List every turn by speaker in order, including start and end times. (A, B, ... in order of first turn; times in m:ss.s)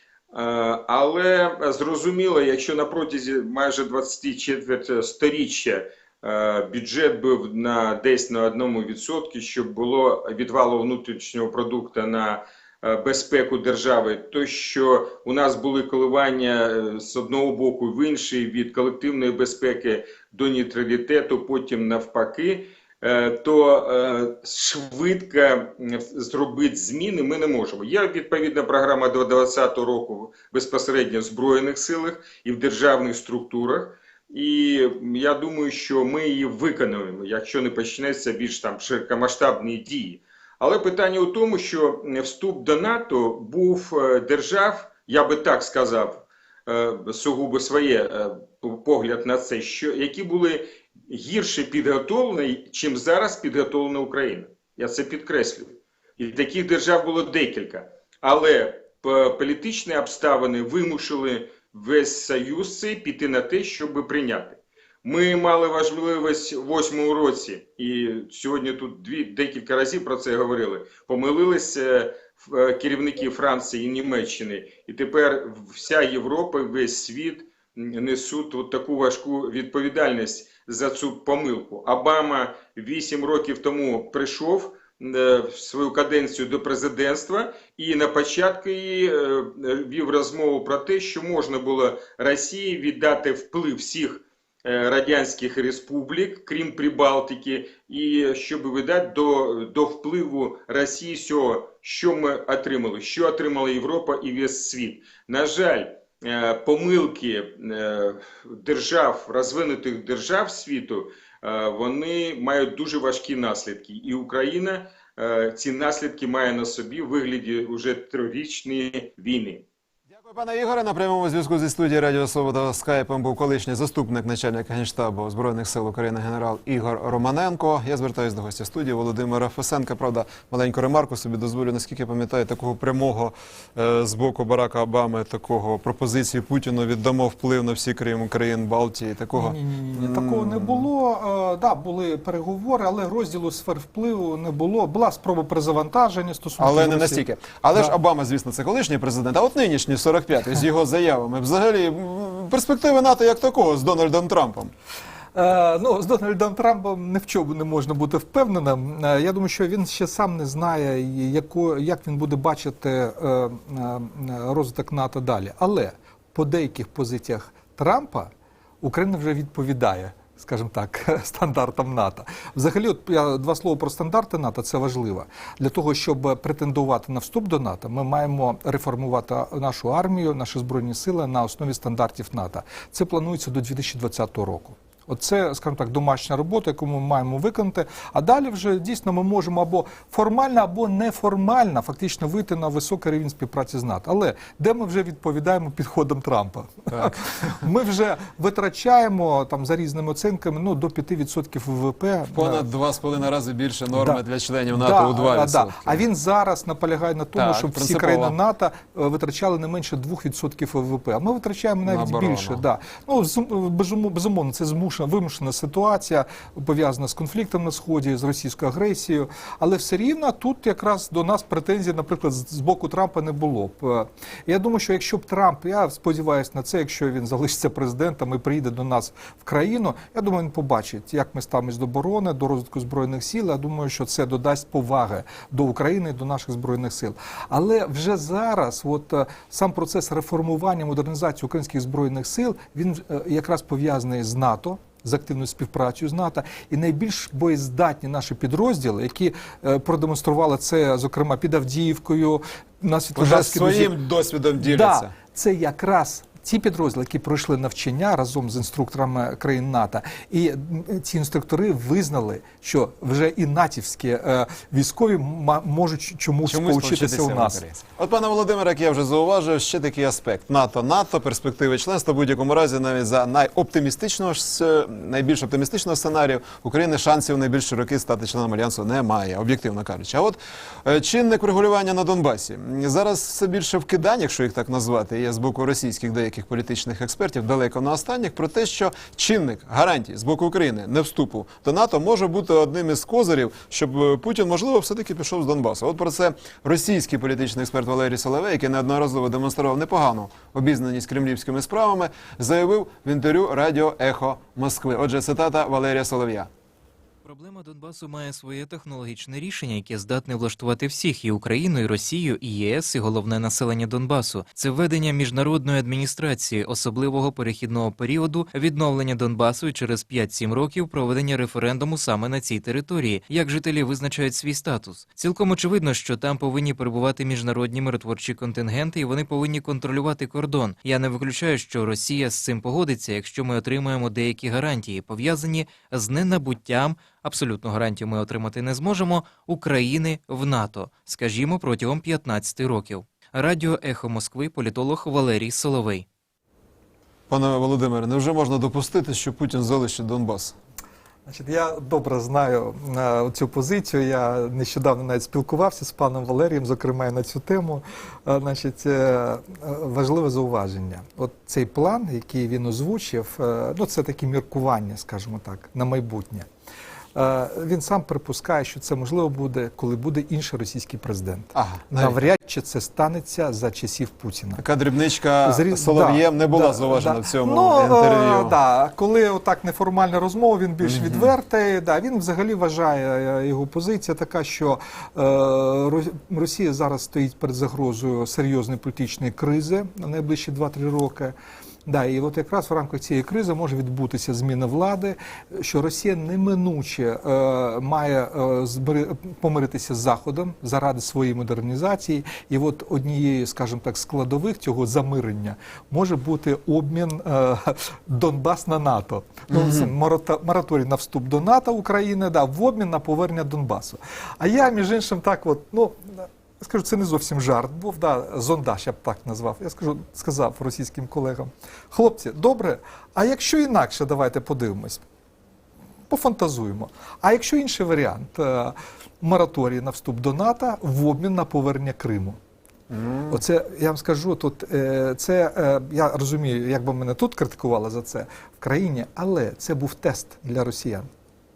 0:00.3-1:59.6 A
2:00.1-2:20.9 B
2:19.3-2:27.9 C
2:26.6-2:34.7 B
2:35.4-3:22.6 C
3:22.3-3:26.0 B
3:23.9-4:14.0 C
3:27.4-3:28.4 B
3:31.8-3:32.6 B
4:13.2-4:15.1 B
4:14.6-4:27.6 C
4:26.5-5:06.5 B
5:07.2-5:46.1 D
5:47.3-5:50.6 B
5:51.3-6:06.5 C
6:07.2-6:14.6 C
6:11.5-6:12.2 B
6:14.6-6:18.6 B
6:15.4-6:31.3 C
6:20.8-6:21.3 B
6:31.9-7:05.0 C
6:49.5-6:49.9 B
7:06.1-7:12.4 C
7:12.9-7:13.4 B
7:13.3-7:21.1 C